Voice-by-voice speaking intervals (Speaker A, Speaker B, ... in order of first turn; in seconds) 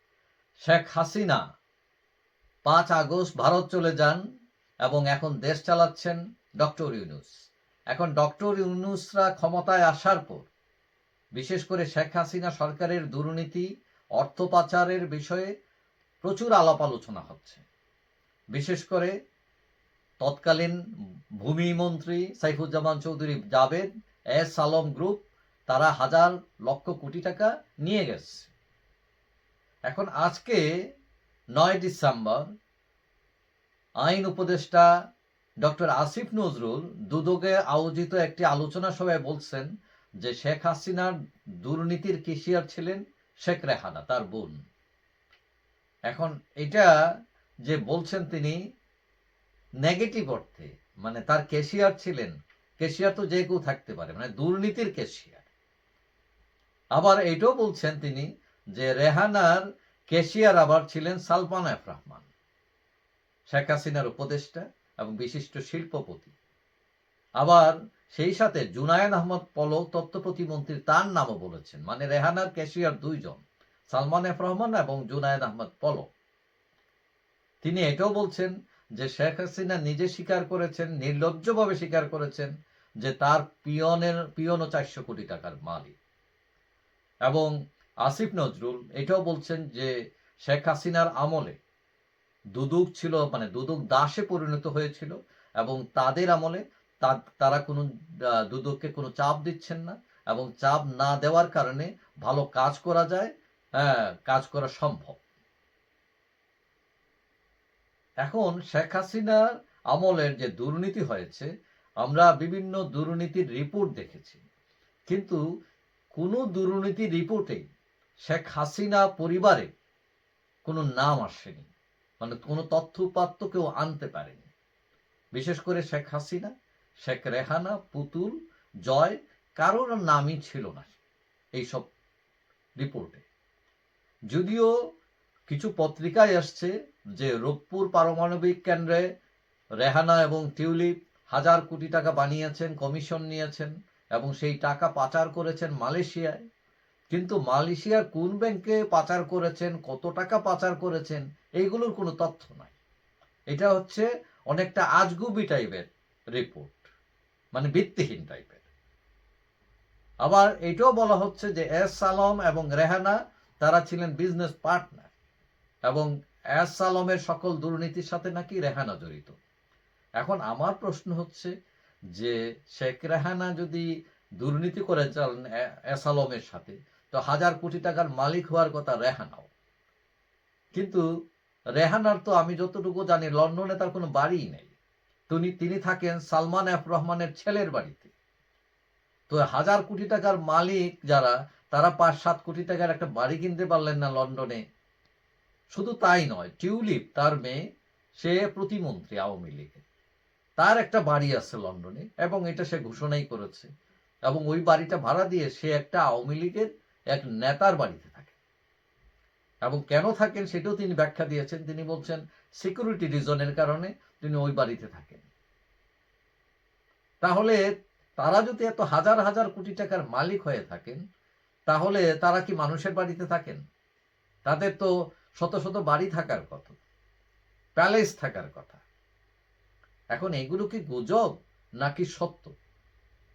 Speaker A: 0.6-1.4, 2.6-4.2, 4.8-7.3, 7.9-10.5, 11.3-13.7, 14.2-15.5, 16.2-17.6, 18.5-19.1, 20.2-20.8, 21.4-28.5, 29.9-30.6, 31.6-32.4, 34.0-34.9, 35.6-39.7, 40.2-44.6, 46.1-46.9, 47.6-48.6, 49.8-55.5, 56.9-62.3, 63.5-66.3, 67.4-76.1, 77.6-86.0, 87.2-87.5, 88.0-89.9, 90.4-91.6, 92.5-105.2, 108.2-111.5, 112.0-114.4, 115.1-115.4, 116.1-117.6, 118.2-119.7, 120.6-121.7, 122.2-124.5, 125.3-128.3, 128.8-131.0, 131.5-131.9, 132.8-133.2, 134.3-134.7, 135.5-139.0, 139.8-146.4, 147.1-152.7, 153.5-156.9, 157.5-158.7, 160.2-165.1, 165.9-169.3, 170.2-171.5, 172.1-173.8, 174.4-179.5, 180.8-181.0, 181.8-184.7, 185.3-188.1, 189.3-194.6, 195.7-197.6, 198.2-199.8, 200.6-203.7, 204.2-208.4, 209.6-215.3, 217.2-217.6, 218.2-221.0, 221.7-223.6, 224.4-226.8, 227.8-228.8, 230.1-232.5